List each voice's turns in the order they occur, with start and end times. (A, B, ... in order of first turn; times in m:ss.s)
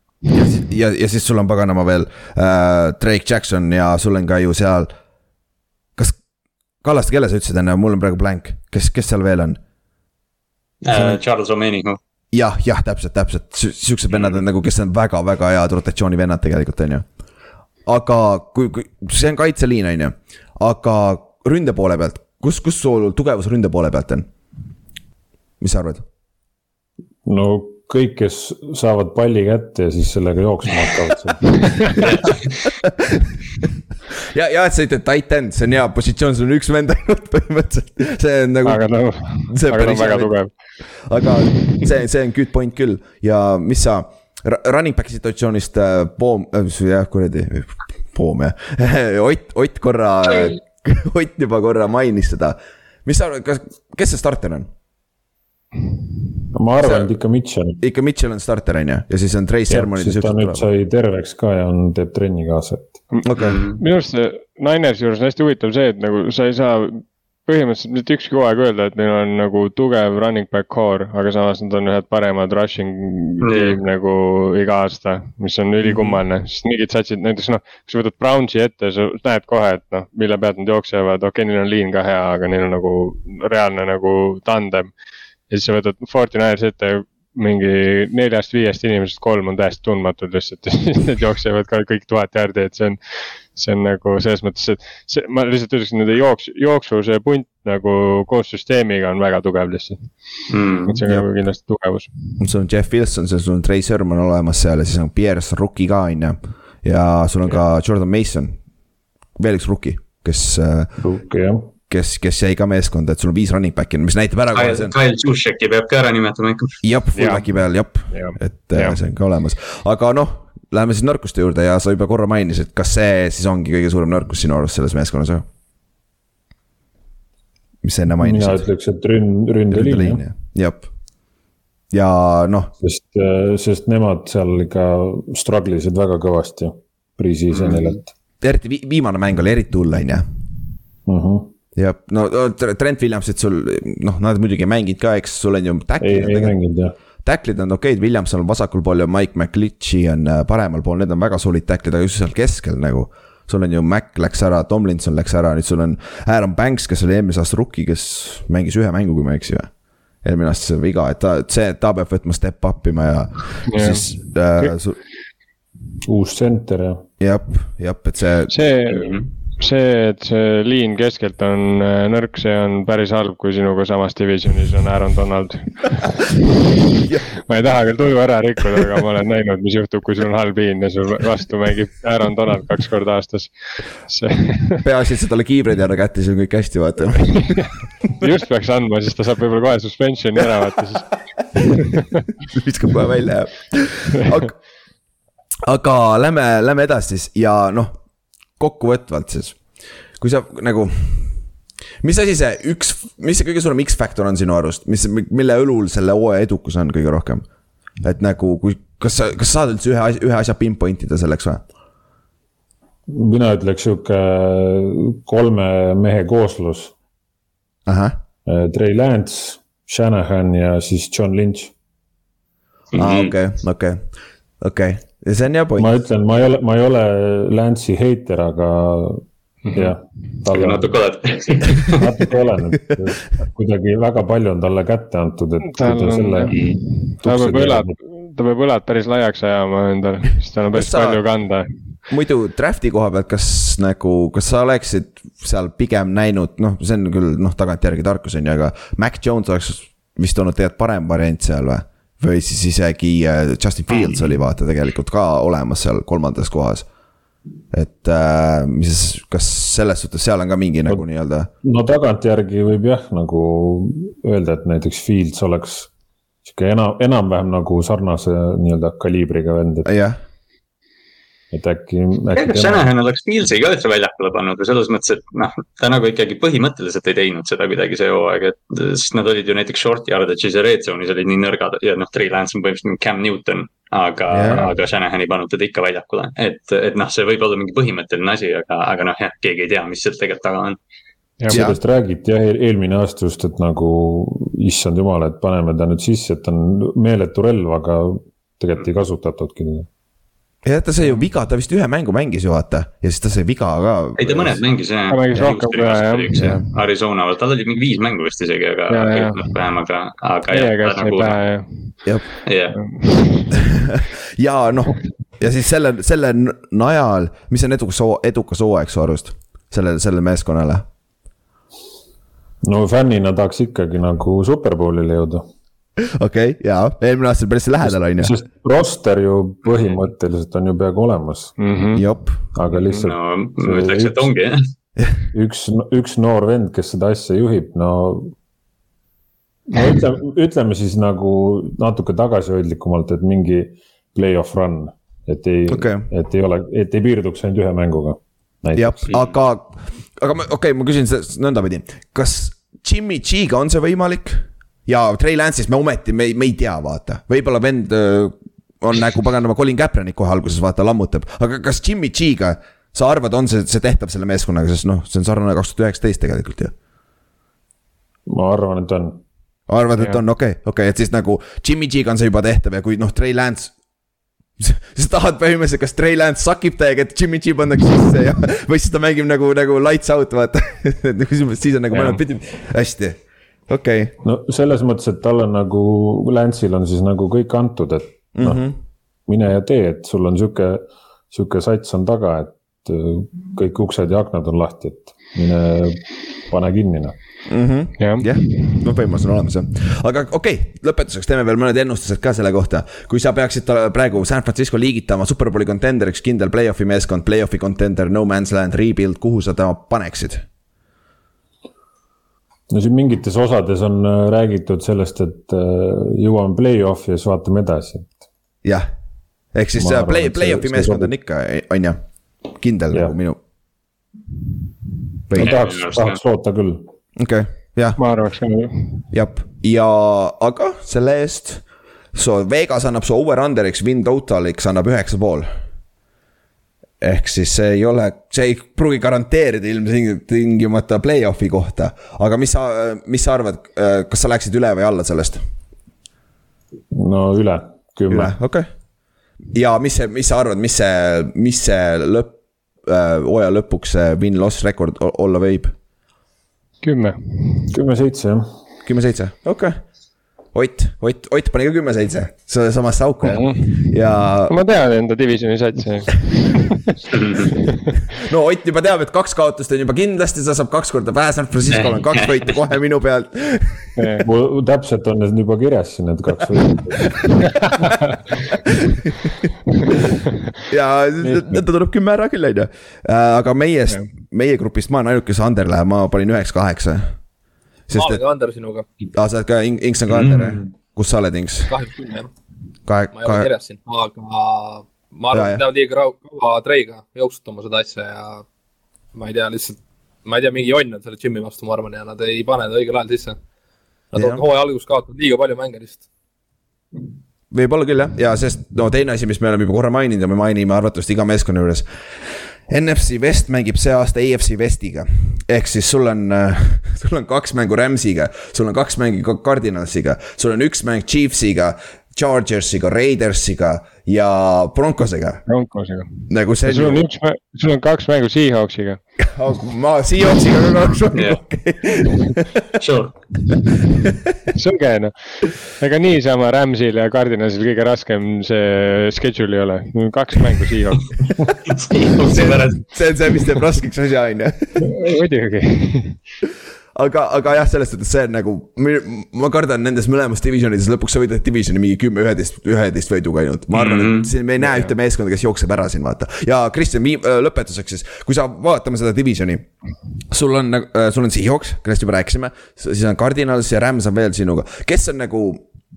0:00.3-0:04.9 A
0:06.8-0:09.6 A
0:10.8-0:12.0 B
0:10.9-0:11.2 A
0:12.3-0:17.0 A
0:14.1-0:14.4 B
0:17.8-0:24.3 A
0:25.6-0:26.0 A
0:27.2-0:32.1 C
0:32.0-0:32.7 B
0:32.9-0:33.2 A
0:34.2-0:40.4 A
0:38.6-0:40.5 D
0:41.0-0:54.7 A
0:56.5-0:57.8 C
0:56.8-0:57.1 A
0:57.8-1:00.7 A
0:59.7-1:03.0 C
1:03.2-1:03.6 A
1:03.4-1:03.8 B
1:03.8-1:24.9 D
1:13.4-1:13.8 B
1:25.5-1:40.1 D
1:40.5-1:41.0 B
1:40.9-1:42.1 D
1:42.4-1:48.6 A
1:49.4-1:50.9 A
1:51.0-1:51.7 C
1:51.9-1:54.9 A
1:54.5-1:56.8 B
1:56.8-2:05.4 A
1:57.1-1:57.4 D
1:58.1-1:59.0 D
2:07.8-2:08.6 A
2:08.2-2:10.2 C
2:09.7-2:10.9 A
2:11.9-2:12.7 A
2:12.8-2:18.1 C
2:17.5-2:17.9 B
2:18.4-2:20.2 A
2:21.0-2:21.5 C
2:21.8-2:26.6 A
2:26.0-2:26.9 C
2:27.2-2:39.7 A
2:40.2-2:45.0 A
2:43.7-2:44.0 D
2:46.0-2:47.0 C
2:47.2-2:48.5 A
2:48.5-2:56.5 D
2:48.9-2:49.2 B
2:57.4-3:04.8 D
3:04.8-3:07.7 A
3:08.2-3:12.2 D
3:12.5-3:14.5 A
3:15.6-3:18.0 A
3:18.6-3:19.6 A
3:20.2-3:21.4 A
3:22.0-3:27.4 A
3:28.0-3:31.6 A
3:33.1-3:36.9 C
3:37.9-3:38.2 A
3:38.4-3:41.7 C
3:42.9-3:43.3 B
3:42.9-3:44.1 A
3:44.6-3:45.9 A
3:45.8-3:51.0 C
3:49.6-3:49.9 D
3:50.5-3:52.1 B
3:51.7-3:57.9 C
3:55.6-4:01.7 D
3:56.5-3:56.8 B
4:00.7-4:01.2 A
4:02.1-4:16.8 A
4:13.9-4:14.3 B
4:17.7-4:21.5 A
4:21.6-4:25.9 C
4:26.4-4:29.9 C
4:29.8-4:30.2 A
4:31.5-4:32.8 C
4:32.3-4:50.8 B
4:44.3-4:44.7 A
4:51.4-4:51.6 D
4:51.5-4:59.9 C
4:51.5-4:51.8 A
5:00.6-5:04.6 A
5:04.2-5:11.4 B
5:05.1-5:06.7 D
5:06.3-5:06.6 A
5:08.9-5:09.5 D
5:10.5-5:12.0 D
5:12.4-5:12.8 B
5:12.8-5:13.6 D
5:13.8-5:20.8 A
5:22.6-5:25.5 C
5:26.0-5:28.3 A
5:27.9-5:31.7 C
5:29.6-5:29.9 B
5:31.6-5:32.0 D
5:31.9-5:32.4 A
5:32.5-5:34.3 C
5:32.9-5:34.6 B
5:35.3-5:38.3 C
5:39.7-5:49.1 C
5:45.7-5:46.1 A
5:48.7-6:06.7 A
6:08.3-6:09.2 C
6:09.7-6:13.7 A
6:14.6-6:24.1 A
6:24.2-6:28.7 C
6:28.4-6:28.7 A
6:29.2-6:37.2 C
6:37.4-6:50.4 A
6:38.0-6:38.8 D
6:52.7-6:58.2 C
6:59.5-7:03.4 A
6:59.8-7:01.1 C
7:05.3-7:05.6 A
7:05.3-7:06.9 C
7:05.4-7:06.2 B
7:07.2-7:08.0 A
7:08.0-7:09.0 D
7:09.1-7:15.5 A
7:17.0-7:25.4 A
7:26.9-7:28.3 C
7:28.1-7:28.7 A
7:29.5-7:35.7 A
7:36.8-7:37.7 D
7:37.7-7:38.6 C
7:38.8-7:39.8 A
7:40.5-7:44.5 A
7:43.2-7:43.8 D
7:44.5-7:46.9 D
7:47.1-7:47.5 B
7:48.1-7:54.1 A
7:51.7-7:52.5 B
7:54.0-7:54.2 D
7:54.2-7:57.4 C
7:57.5-7:58.2 D
8:00.7-8:07.2 A
8:01.2-8:01.6 D
8:07.9-8:08.2 A
8:07.9-8:08.9 E
8:09.1-8:11.7 A
8:10.1-8:10.7 B
8:11.7-8:12.3 E
8:12.8-8:13.5 A
8:13.1-8:18.4 E
8:15.3-8:15.6 A
8:19.1-8:23.4 E
8:24.1-8:26.0 E
8:24.1-8:24.4 A
8:27.5-8:31.8 A
8:32.7-8:45.4 A
8:45.5-8:49.0 D
8:46.3-8:47.0 A
8:49.2-8:52.6 A
8:51.1-8:51.4 B
8:52.8-8:53.2 B
8:54.5-9:01.1 D
9:01.7-9:02.8 B
9:02.2-9:04.9 A
9:04.8-9:06.2 D
9:06.9-9:19.7 A
9:13.7-9:14.3 B
9:14.6-9:14.9 D
9:20.3-9:25.6 A